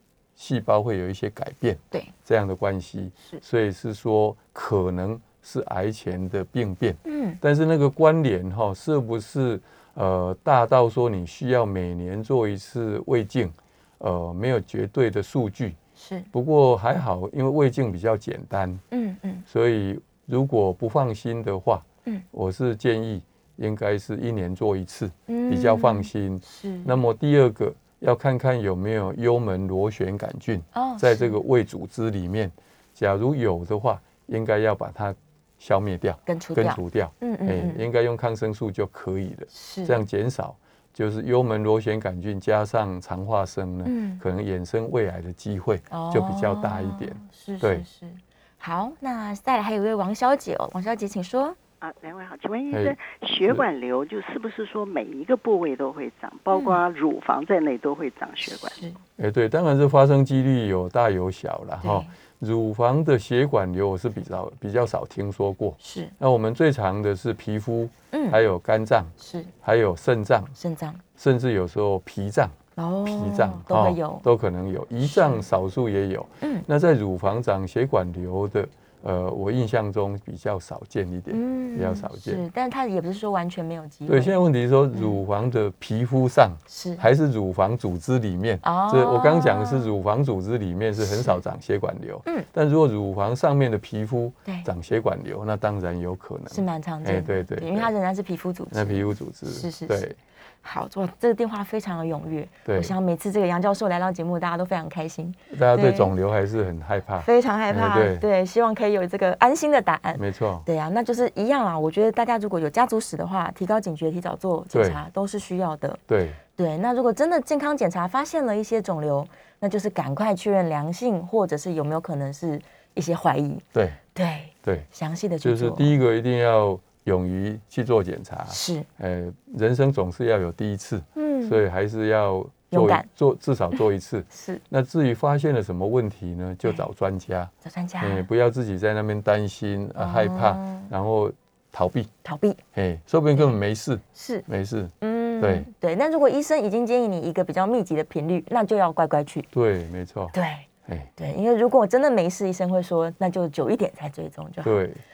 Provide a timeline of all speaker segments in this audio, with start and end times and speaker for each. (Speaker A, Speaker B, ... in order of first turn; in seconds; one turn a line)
Speaker A: 0.3-15.8
Speaker B: 7.0-7.4
Speaker B: 16.0-16.3
Speaker A: 16.3-18.8
Speaker B: 18.9-19.4
Speaker A: 19.5-47.8
Speaker B: 25.3-27.0
Speaker B: 30.7-31.4
Speaker B: 36.3-37.8
Speaker B: 39.5-40.0
Speaker B: 43.8-44.2
Speaker B: 45.9-51.6
Speaker C: 51.8-58.8
Speaker A: 52.7-53.6
Speaker B: 56.5-56.8
Speaker B: 58.5-59.0
Speaker A: 59.2-70.5
Speaker B: 61.8-62.1
Speaker B: 65.8-66.1
Speaker B: 68.1-68.4
Speaker B: 69.2-69.5
Speaker B: 70.6-71.0
Speaker A: 71.2-82.4
Speaker B: 72.8-74.2
Speaker B: 75.0-75.4
Speaker B: 81.3-84.3
Speaker A: 84.1-97.9
Speaker B: 86.7-87.0
Speaker B: 88.6-89.9
Speaker B: 91.0-91.4
Speaker B: 96.5-100.0
Speaker A: 98.7-100.2
Speaker B: 100.6-106.1
Speaker A: 102.7-102.9
Speaker A: 105.5-108.2
Speaker B: 107.2-116.0
Speaker A: 110.2-110.7
Speaker A: 114.7-115.0
Speaker A: 116.1-116.4
Speaker B: 116.5-125.9
Speaker A: 123.7-124.0
Speaker A: 125.4-142.1
Speaker B: 128.5-128.9
Speaker B: 131.2-131.6
Speaker B: 132.7-133.1
Speaker B: 134.3-134.6
Speaker B: 137.6-138.3
Speaker B: 140.0-140.9
Speaker B: 142.2-142.6
Speaker A: 142.7-145.7
Speaker B: 144.1-144.4
Speaker B: 145.0-149.5
Speaker A: 149.5-150.3
Speaker B: 150.3-154.8
Speaker A: 154.6-155.0